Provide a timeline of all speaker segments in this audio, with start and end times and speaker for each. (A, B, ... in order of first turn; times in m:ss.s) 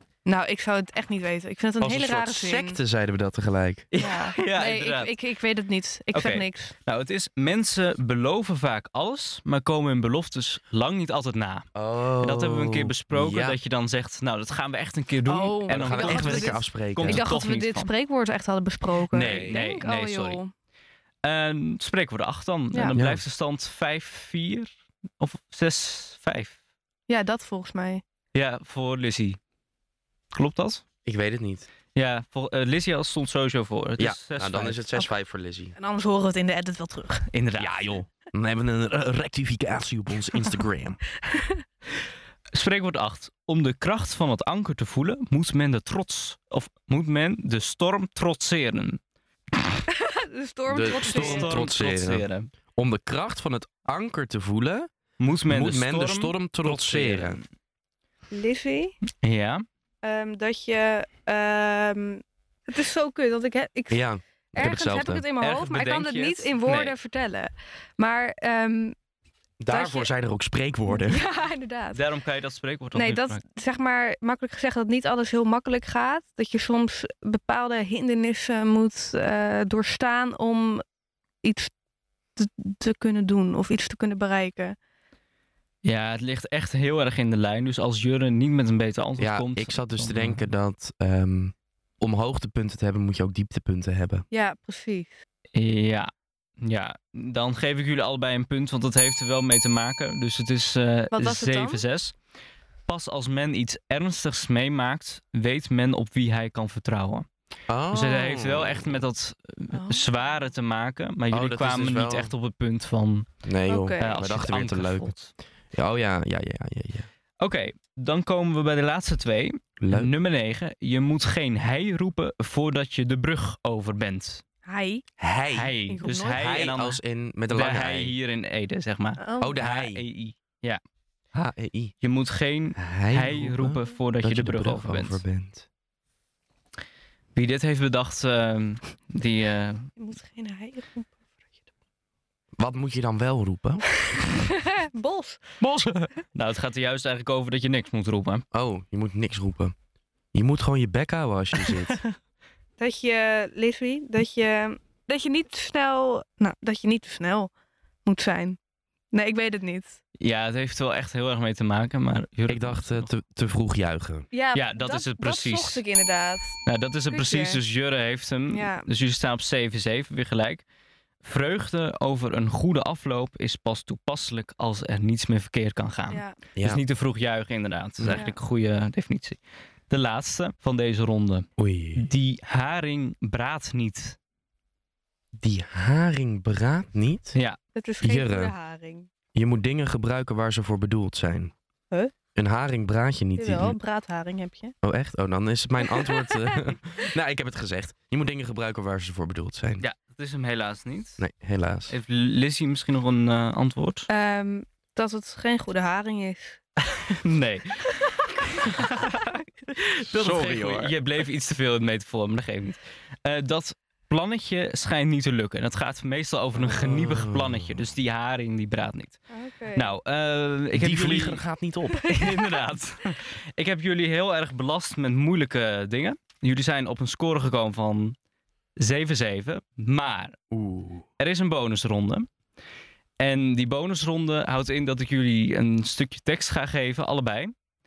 0:00.2-0:02.8 A
0:01.8-0:03.9 B
0:03.9-0:05.1 C
0:04.0-0:06.7 A
0:06.1-0:17.9 C
0:11.8-0:13.6 B
0:15.3-0:20.5 A
0:15.7-0:17.2 B
0:19.1-0:20.4 C
0:19.2-0:19.6 B
0:21.2-0:26.6 C
0:23.0-0:23.2 B
0:27.1-0:28.0 A
0:28.3-0:29.4 C
0:30.3-0:30.8 C
0:31.1-0:31.7 B
0:32.0-0:34.9 C
0:34.0-0:35.8 B
0:35.8-0:37.3 A
0:37.3-0:37.9 C
0:37.6-0:41.0 B
0:41.2-0:41.6 A
0:42.5-0:49.0 C
0:49.9-0:51.6 A
0:50.7-0:54.9 B
0:51.0-0:52.5 C
0:55.2-0:57.4 C
0:55.5-0:57.4 B
0:58.3-0:59.0 A
0:59.2-0:59.6 C
1:00.0-1:09.0 A
1:03.9-1:05.3 B
1:05.4-1:07.0 C
1:09.6-1:11.2 B
1:09.7-1:10.1 A
1:10.9-1:12.0 A
1:11.9-1:13.4 C
1:12.9-1:20.8 A
1:21.4-1:21.7 A
1:22.4-1:24.8 A
1:25.8-1:30.4 C
1:29.2-1:34.2 B
1:34.3-1:35.2 A
1:35.5-1:36.1 C
1:36.6-1:42.2 C
1:41.1-1:41.8 A
1:42.9-1:47.3 C
1:47.7-1:49.0 B
1:47.9-1:53.3 C
1:49.7-1:50.3 A
1:51.3-1:52.3 B
1:53.4-1:55.1 B
1:53.7-1:54.1 A
1:54.0-1:55.3 C
1:55.7-1:57.1 B
1:57.4-2:04.4 C
1:59.8-2:00.1 B
2:04.6-2:05.0 A
2:05.2-2:05.8 B
2:05.5-2:10.8 C
2:05.9-2:06.4 A
2:06.3-2:08.2 B
2:09.2-2:09.6 A
2:09.4-2:10.0 B
2:11.3-2:11.9 B
2:12.0-2:15.2 C
2:12.8-2:15.7 B
2:17.4-2:19.9 C
2:20.0-2:21.2 A
2:22.6-2:23.9 B
2:24.1-2:25.4 A
2:25.6-2:26.1 B
2:26.3-2:28.4 C
2:28.5-2:29.7 B
2:30.3-2:32.0 B
2:32.8-2:37.5 A
2:38.0-2:38.6 A
2:39.1-2:40.0 A
2:40.2-2:43.1 C
2:42.5-2:44.3 B
2:44.3-2:47.6 A
2:44.6-2:45.8 C
2:46.6-2:50.6 C
2:48.5-2:48.9 A
2:51.2-3:04.2 C
2:56.1-2:56.4 A
2:56.6-2:56.8 B
2:58.1-2:58.4 A
3:01.6-3:02.1 B
3:05.4-3:07.4 B
3:07.8-3:09.1 A
3:08.0-3:08.5 B
3:09.3-3:11.5 B
3:12.4-3:13.8 B
3:13.4-3:14.8 A
3:14.8-3:19.9 B
3:15.8-3:16.8 A
3:19.8-3:21.2 C
3:21.2-3:21.9 B
3:21.9-3:24.1 C
3:24.1-3:26.6 A
3:26.8-3:39.2 C
3:30.1-3:31.0 B
3:36.5-3:37.8 B
3:39.3-3:39.9 A
3:39.7-3:41.4 C
3:40.7-3:42.1 B
3:42.0-3:42.7 A
3:42.1-3:48.2 C
3:48.8-3:50.4 C
3:50.5-3:51.1 B
3:51.2-3:52.3 C
3:53.2-3:57.5 C